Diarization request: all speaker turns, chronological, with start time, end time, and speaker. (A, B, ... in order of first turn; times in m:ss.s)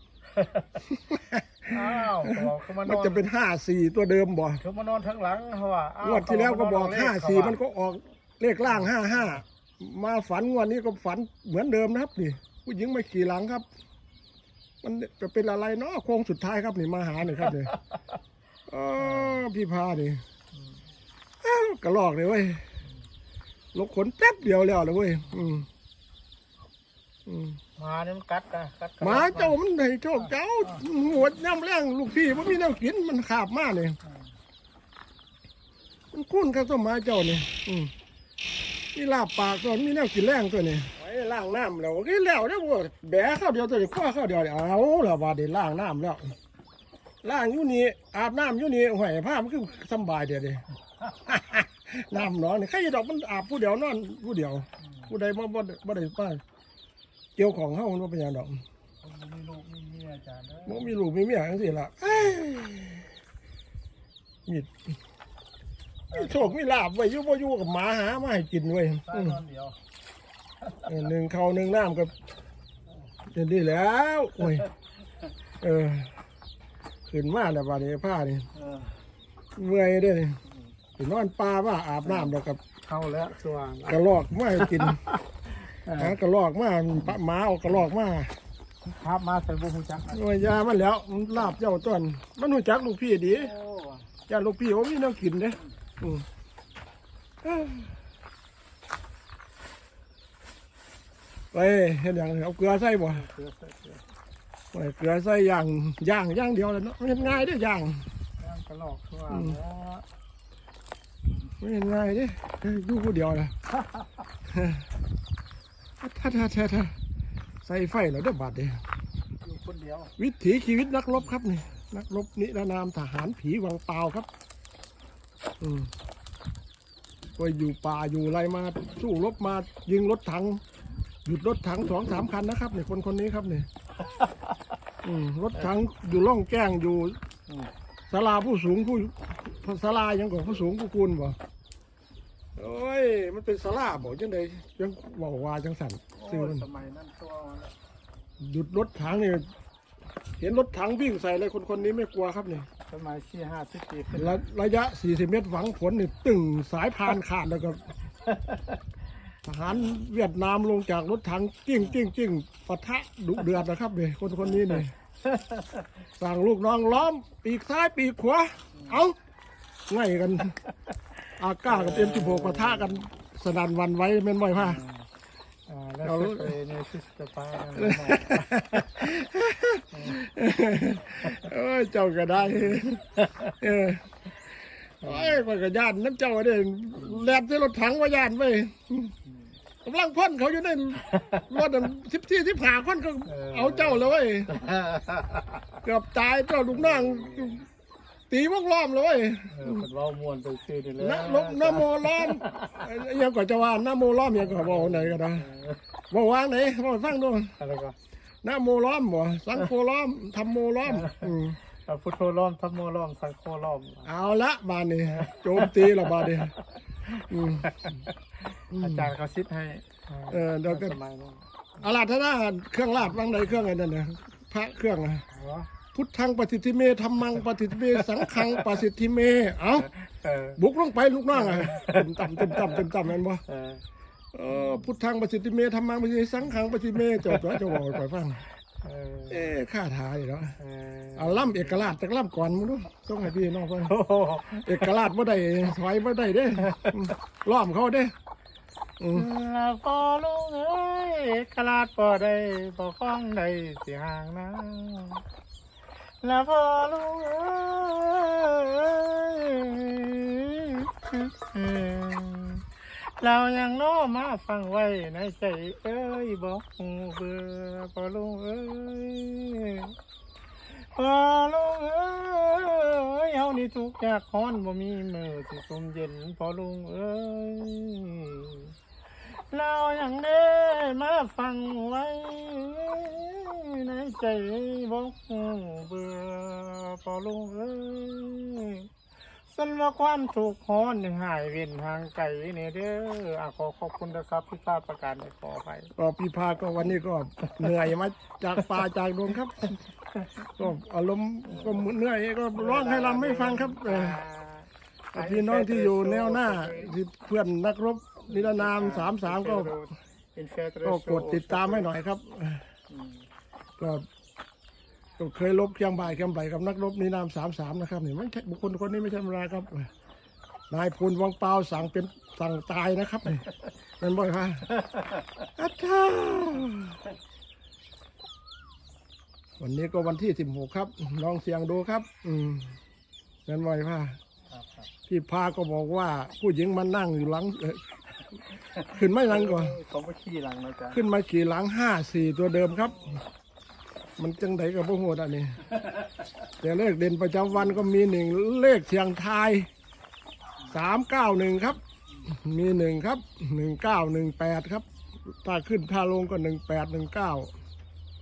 0:00.4-0:00.8 A
0:00.9-0:04.6 B
0:01.7-0:03.2 A
0:04.6-0:07.6 A
0:06.0-0:13.6 B
0:14.8-0:17.7 B
0:18.7-0:20.2 B
0:19.0-0:19.4 A
0:21.4-0:22.6 B
0:23.7-0:25.7 B
0:27.2-0:27.6 B
0:27.8-0:29.6 A
0:29.0-0:34.0 B
0:36.1-0:37.9 B
0:38.9-0:46.4 B
0:47.2-0:50.6 B
0:51.2-0:56.4 B
0:54.8-0:55.1 A
0:57.4-0:58.6 B
0:59.0-1:00.9 A
1:00.6-1:03.1 B
1:04.4-1:04.9 B
1:06.1-1:06.6 A
1:06.1-1:09.4 B
1:09.0-1:09.8 A
1:10.9-1:12.1 B
1:13.3-1:14.7 B
1:15.6-1:16.1 B
1:17.1-1:18.4 B
1:18.5-1:19.0 A
1:19.6-1:20.4 B
1:21.0-1:22.6 B
1:22.0-1:24.0 A
1:23.8-1:25.0 B
1:24.6-1:26.2 A
1:26.0-1:28.3 B
1:28.8-1:30.2 A
1:30.1-1:33.5 B
1:33.2-1:34.1 A
1:34.3-1:36.2 B
1:37.4-1:37.9 B
1:41.5-1:43.2 B
1:43.1-1:44.0 A
1:44.7-1:48.0 B
1:48.4-1:50.0 A
1:49.3-1:49.6 B
1:51.6-1:53.5 B
1:53.8-1:54.1 A
1:54.5-1:54.8 B
1:56.0-1:57.0 B
1:57.6-1:58.8 B
1:59.4-2:00.1 A
2:00.2-2:04.3 B
2:05.6-2:05.9 B
2:07.4-2:10.6 B
2:11.2-2:13.7 B
2:15.0-2:17.2 B
2:18.1-2:21.4 B
2:22.6-2:26.6 B
2:26.2-2:27.7 A
2:28.4-2:29.5 B
2:30.4-2:32.7 B
2:32.9-2:34.4 A
2:34.2-2:37.8 B
2:38.3-2:38.6 A
2:39.4-2:44.9 B
2:44.6-2:45.9 A
2:46.2-2:49.2 B
2:49.9-2:50.6 B
2:51.4-2:54.8 B
2:51.6-2:53.0 A
2:54.5-2:55.0 A
2:55.7-2:58.9 A
2:56.0-2:56.5 B
2:57.8-3:04.1 B
2:59.9-3:00.2 A
3:02.4-3:03.6 A
3:05.0-3:09.1 B
3:05.0-3:05.4 A
3:07.0-3:07.3 A
3:09.8-3:14.5 B
3:11.0-3:11.4 A
3:13.2-3:15.7 A
3:15.8-3:17.6 B
3:16.7-3:17.6 A
3:18.3-3:19.9 B
3:19.5-3:22.8 A
3:21.0-3:25.5 B
3:24.3-3:25.8 A
3:26.1-3:27.5 B
3:27.6-3:27.9 A
3:28.4-3:31.6 B
3:30.8-3:34.1 A
3:34.0-3:36.5 B
3:35.0-3:41.4 A
3:37.3-3:37.8 B
3:38.7-3:39.1 B
3:40.3-3:41.0 B
3:41.8-3:45.2 B
3:43.1-3:43.5 A
3:45.3-3:45.7 A
3:45.9-3:49.9 B
3:47.7-3:48.8 A
3:50.0-3:50.6 A
3:50.6-3:53.4 B
3:51.3-3:52.9 A
3:53.5-3:53.8 A
3:54.3-3:58.4 B
3:57.0-3:58.0 A
3:58.8-3:59.6 A
3:59.3-4:00.6 B
4:00.6-4:02.0 A
4:01.2-4:03.9 B
4:03.6-4:04.9 A
4:04.5-4:08.1 B
4:06.6-4:07.1 A
4:09.0-4:09.3 B
4:09.1-4:15.2 A
4:16.2-4:29.9 A
4:30.7-4:38.7 A
4:39.2-4:48.9 A
4:49.5-4:55.9 A
4:56.0-4:59.7 B
4:59.6-5:00.4 A
5:00.6-5:04.2 B
5:01.5-5:01.9 A
5:02.5-5:07.0 A
5:05.1-5:09.7 B
5:08.3-5:11.9 A
5:10.8-5:12.6 B
5:12.9-5:13.2 A
5:13.8-5:14.0 B
5:15.2-5:19.9 B
5:20.7-5:23.5 B
5:24.0-5:24.7 B
5:24.7-5:25.4 A
5:25.6-5:27.0 B
5:29.6-5:32.7 B
5:33.4-5:34.2 B
5:34.5-5:34.9 A
5:35.1-5:37.8 B
5:38.5-5:41.0 A
5:38.9-5:39.8 B
5:40.9-5:43.2 B
5:44.2-5:45.6 B
5:46.6-5:49.7 B
5:50.7-5:57.5 B